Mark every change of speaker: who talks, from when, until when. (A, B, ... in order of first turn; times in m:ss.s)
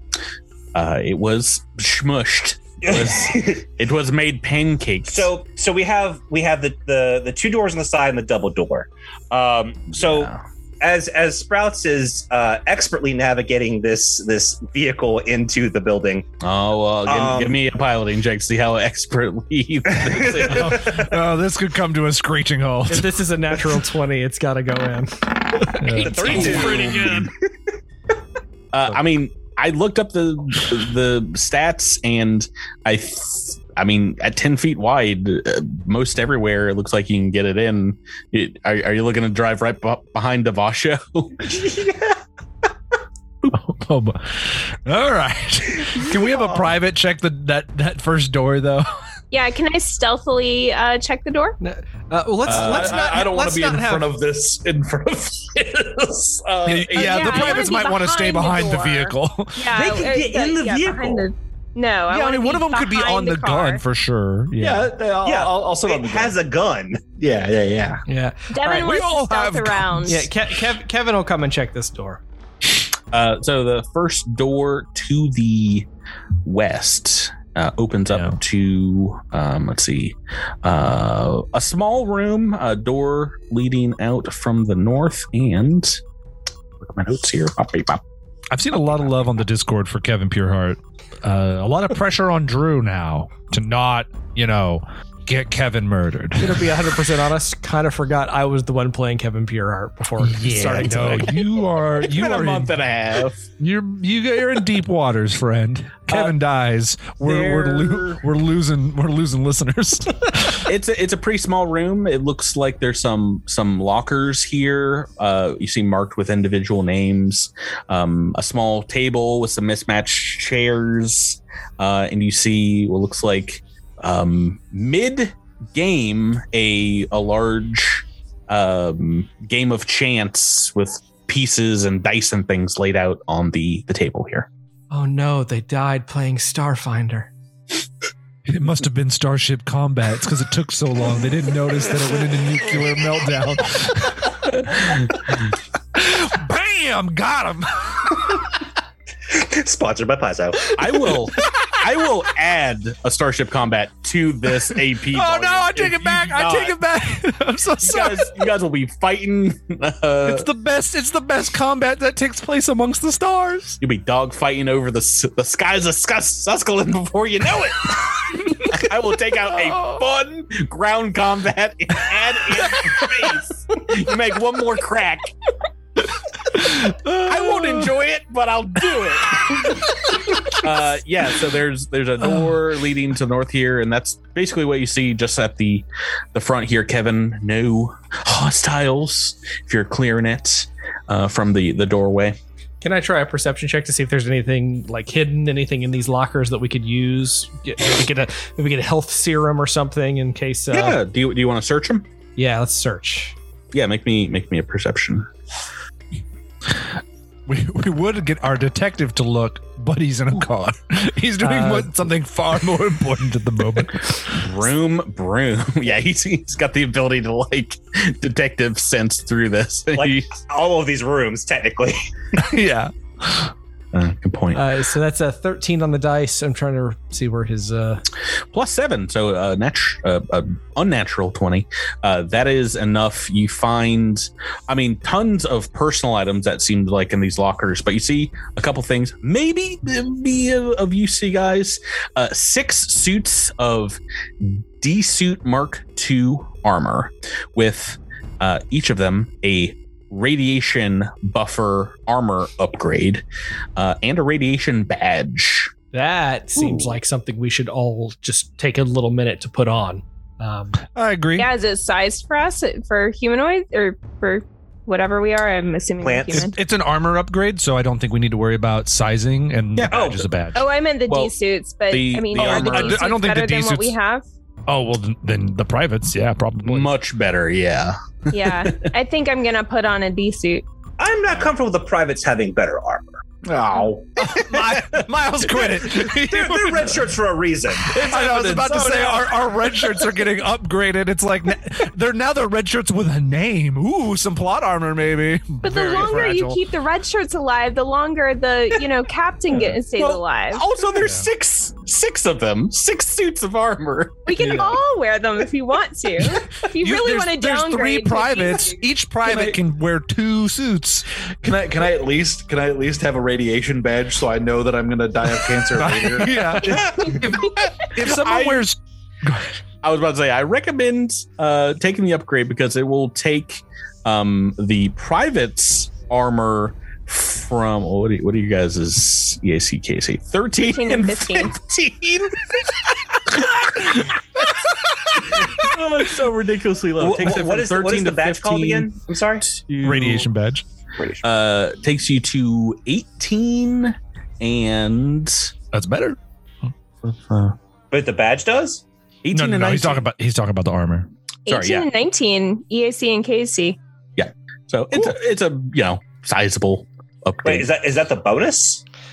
0:00.7-0:05.3 A
0:02.8-0:03.6 B
0:05.1-0:16.2 B
0:09.9-0:10.4 A
0:16.4-0:20.9 A
0:17.0-0:17.6 B
0:19.9-0:21.1 B
0:20.5-0:23.1 C
0:22.9-0:26.2 D
0:25.8-0:27.2 C
0:26.0-0:27.3 B
0:26.0-0:27.3 A
0:28.7-0:41.4 A
0:41.4-0:42.2 B
0:43.4-0:48.9 C
0:49.3-0:51.6 E
0:51.6-0:54.2 D
0:52.4-0:56.9 F
0:52.4-0:52.9 A
0:56.6-0:59.6 C
0:56.7-0:57.6 A
0:56.9-1:03.8 E
0:59.7-1:01.3 B
1:02.1-1:04.9 C
1:04.6-1:06.3 F
1:05.2-1:07.0 B
1:07.2-1:08.0 F
1:08.1-1:09.0 D
1:08.5-1:10.2 E
1:08.6-1:10.3 C
1:10.0-1:12.2 D
1:13.1-1:15.9 A
1:16.4-1:26.0 A
1:18.1-1:18.4 C
1:26.8-1:28.0 A
1:28.5-1:36.6 C
1:36.4-1:41.4 D
1:40.2-1:42.7 C
1:42.0-1:43.5 A
1:43.6-1:50.6 C
1:46.1-1:46.4 A
1:47.2-1:48.2 A
1:50.6-2:14.5 A
2:14.9-2:17.3 D
2:18.5-2:24.4 C
2:24.5-2:25.3 A
2:25.9-2:28.4 C
2:29.3-2:30.6 B
2:30.8-2:36.8 A
2:35.1-2:38.4 C
2:37.8-2:40.5 A
2:40.2-2:43.8 C
2:43.8-2:55.3 A
2:56.5-2:57.9 C
2:57.2-2:59.8 A
2:59.6-3:00.6 C
3:00.6-3:12.4 A
3:02.2-3:02.5 C
3:12.8-3:21.0 D
3:20.7-3:22.1 A
3:22.4-3:23.4 D
3:23.7-3:25.3 A
3:27.5-3:34.4 C
3:31.4-3:32.0 D
3:34.3-3:40.3 A
3:39.9-3:42.0 B
3:42.4-3:43.5 C
3:43.9-3:44.7 A
3:44.5-3:48.0 D
3:48.5-4:15.7 A
4:15.9-4:20.8 D
4:16.6-4:17.0 A
4:20.9-4:21.5 C
4:21.4-4:26.5 E
4:26.0-4:26.5 B
4:26.3-4:30.6 C
4:29.7-4:30.3 A
4:29.9-4:30.2 B
4:30.5-4:34.2 E
4:31.1-4:31.3 A
4:31.9-4:33.0 A
4:32.3-4:33.9 C
4:34.7-4:36.9 C
4:36.6-4:38.9 A
4:38.3-4:40.6 E
4:41.0-4:43.2 B
4:43.4-4:44.6 F
4:44.2-4:47.0 C
4:45.4-4:47.9 B
4:47.9-4:49.4 F
4:47.9-4:56.6 C
4:55.6-5:00.6 E
4:59.7-5:04.6 A
5:04.2-5:08.8 E
5:06.6-5:11.0 C
5:09.3-5:09.6 F
5:11.4-5:17.2 F
5:15.8-5:16.8 C
5:16.6-5:18.6 A
5:17.9-5:19.5 C
5:19.8-5:34.4 A
5:30.7-5:31.5 E
5:35.2-5:38.9 A
5:37.0-5:39.5 B
5:39.4-5:40.3 A
5:39.8-5:40.6 C
5:41.2-5:45.5 A
5:45.7-5:46.2 C
5:47.0-5:47.6 A
5:47.9-5:48.8 B
5:49.2-5:50.0 A
5:49.3-5:51.1 C
5:51.5-5:53.8 E
5:51.5-5:51.9 A
5:54.2-5:57.7 A
5:57.4-5:58.8 B